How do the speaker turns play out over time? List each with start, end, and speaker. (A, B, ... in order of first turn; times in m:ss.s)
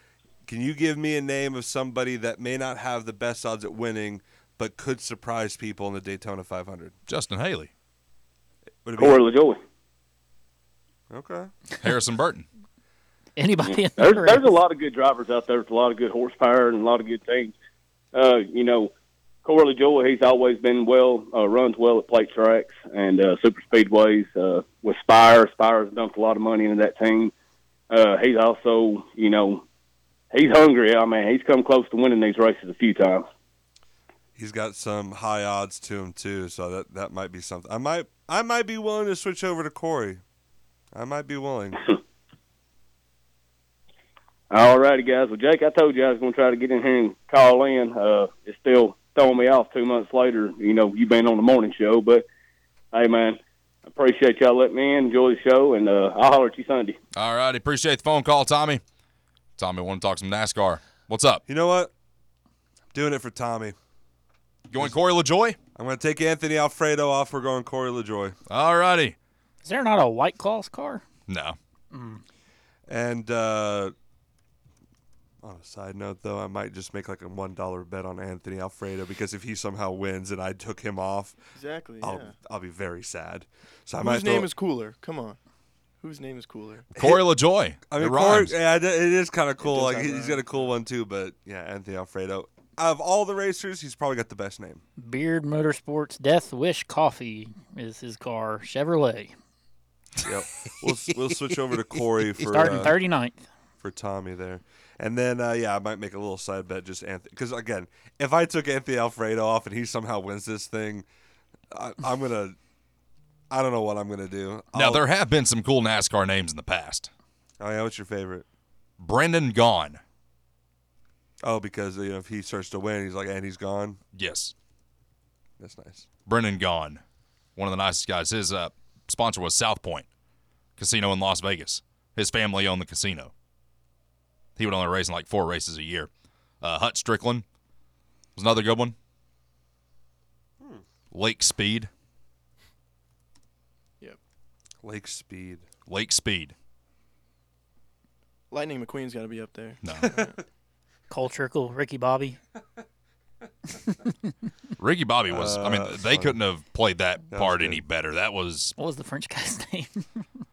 0:00.5-0:07.0 A
0:07.1-0:07.7 B
0:08.8-0:09.2 A
0:09.0-0:09.6 C
0:11.1-0:11.5 A
0:11.8-0:12.5 B
0:13.4-0:14.5 D
0:14.0-0:17.5 C
0:18.1-0:18.9 C
0:19.4-0:27.3 C
0:27.9-0:29.6 C
0:30.3-0:33.3 C
0:34.4-0:40.2 A
0:40.9-0:41.8 A
0:44.5-0:52.2 C
0:52.9-0:57.0 C
0:57.2-0:58.8 B
0:59.6-1:01.4 B
1:01.5-1:01.9 A
1:02.9-1:03.8 A
1:04.7-1:05.6 B
1:05.8-1:08.4 A
1:08.5-1:09.2 B
1:09.6-1:11.0 D
1:11.3-1:11.6 B
1:11.9-1:12.2 D
1:12.9-1:13.9 A
1:15.4-1:21.4 A
1:21.6-1:22.3 E
1:22.0-1:24.5 A
1:24.0-1:25.4 E
1:26.0-1:26.9 E
1:27.0-1:27.2 A
1:27.0-1:28.5 B
1:27.9-1:34.8 A
1:29.6-1:30.4 E
1:35.0-1:39.3 D
1:40.2-1:43.0 A
1:42.4-1:43.4 D
1:43.8-1:51.0 A
1:51.7-1:52.6 A
1:53.5-1:55.1 A
1:54.7-1:57.1 B
1:57.6-1:58.5 A
1:59.0-2:00.0 B
2:01.4-2:04.0 A
2:04.1-2:04.5 B
2:05.6-2:06.1 A
2:06.3-2:07.0 B
2:07.6-2:10.1 B
2:10.8-2:13.3 B
2:14.6-2:16.1 B
2:16.6-2:17.4 B
2:18.4-2:19.0 B
2:21.1-2:21.9 B
2:24.8-2:25.7 A
2:25.9-2:26.6 B
2:28.5-2:30.4 E
2:29.8-2:30.2 B
2:30.0-2:30.3 A
2:31.1-2:32.4 D
2:34.8-2:38.8 B
2:35.3-2:36.4 A
2:37.3-2:37.8 A
2:38.8-2:40.0 D